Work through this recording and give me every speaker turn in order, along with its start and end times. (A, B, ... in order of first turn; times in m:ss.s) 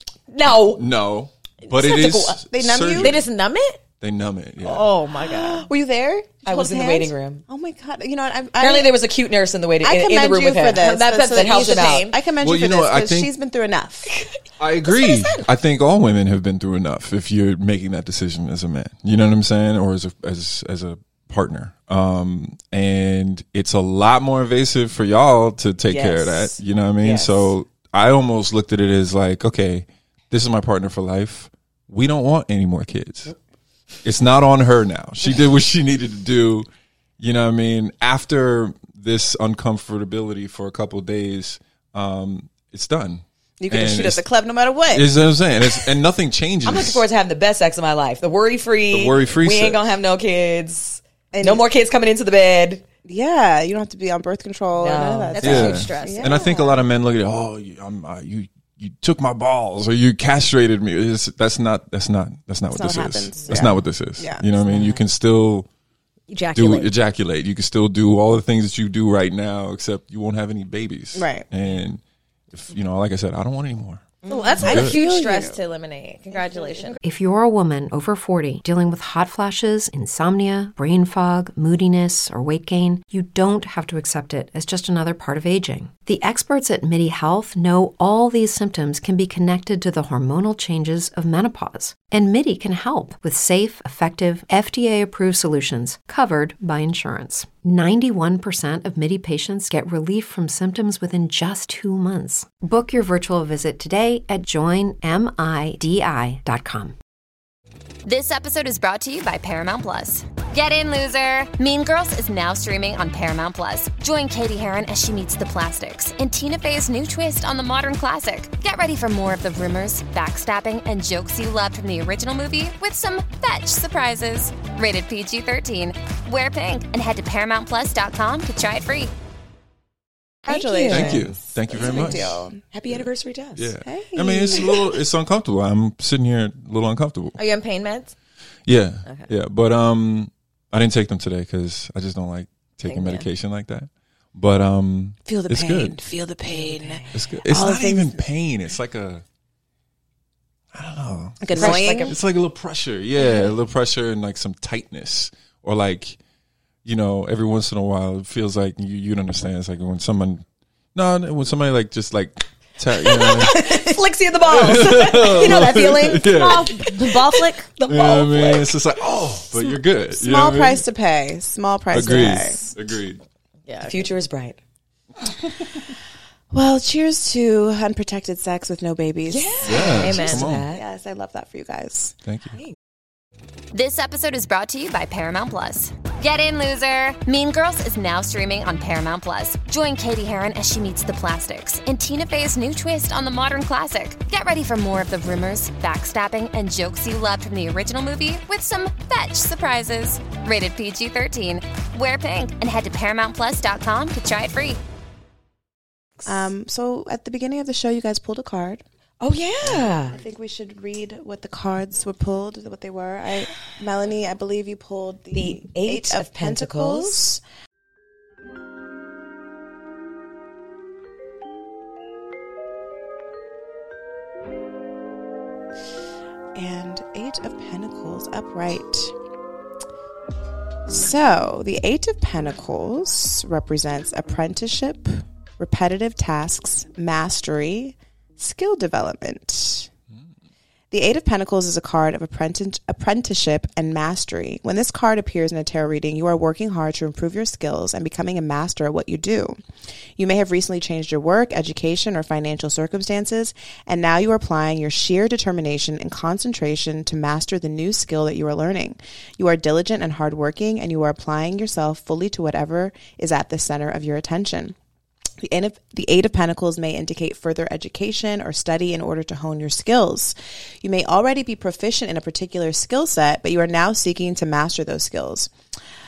0:00.3-0:00.9 A
0:00.8-0:03.2 B
0:01.7-0:02.4 A
0:02.5-0:03.2 C
0:02.9-0:03.8 D
0:04.0-0:04.9 B
0:04.6-0:05.7 D
0:05.2-0:09.0 C
0:06.4-0:07.4 A
0:08.6-0:12.1 A
0:09.8-0:14.2 C
0:10.8-0:12.2 D
0:12.4-0:13.3 B
0:14.0-0:15.5 A
0:14.6-0:33.3 B
0:25.9-0:27.5 A
0:34.0-0:36.7 B
0:37.2-0:44.2 B
0:43.6-0:45.1 C
0:44.9-0:47.0 B
0:46.6-0:52.8 A
0:48.9-0:49.8 B
0:51.3-0:51.6 C
0:53.0-0:56.8 C
0:54.8-0:55.7 A
0:55.3-0:56.5 D
0:55.4-1:05.7 B
1:02.7-1:04.4 C
1:03.4-1:03.7 A
1:04.6-1:05.0 A
1:06.3-1:06.9 D
1:06.5-1:12.0 B
1:11.1-1:11.4 C
1:12.5-1:14.1 B
1:14.2-1:14.8 A
1:14.3-1:17.0 D
1:14.6-1:15.6 C
1:14.6-1:15.0 B
1:16.3-1:16.9 C
1:17.0-1:47.0 E
1:48.0-2:09.1 F
2:10.4-2:11.2 A
2:10.4-2:12.6 C
2:10.9-2:12.5 B
2:11.8-2:13.7 A
2:13.6-2:17.4 B
2:13.8-2:15.0 C
2:17.4-2:18.1 D
2:18.6-2:26.0 B
2:22.8-2:23.3 D
2:25.2-2:28.2 C
2:26.5-2:27.4 A
2:27.1-2:29.2 B
2:30.7-2:36.2 B
2:31.4-2:32.2 C
2:31.5-2:32.2 A
2:36.8-2:40.4 B
2:40.9-2:47.1 B
2:43.0-2:48.8 A
2:46.4-2:47.7 D
2:47.9-2:50.8 B
2:50.1-2:52.6 C
2:51.9-2:53.2 B
2:52.0-2:52.7 A
2:53.7-2:54.1 D
2:53.8-2:54.6 A
2:56.5-3:00.2 C
2:59.3-3:00.8 A
2:59.6-3:00.7 B
2:59.8-3:00.4 D
3:00.7-3:02.2 C
3:02.2-3:02.6 B
3:03.7-3:24.8 F
3:26.2-3:26.5 A
3:26.2-3:28.8 C
3:29.2-3:30.2 A
3:30.1-3:37.4 C
3:35.3-3:37.4 A
3:46.5-3:49.1 C
3:50.9-3:59.9 C
4:00.9-4:09.6 C
4:10.2-4:24.8 C
4:25.4-4:35.5 C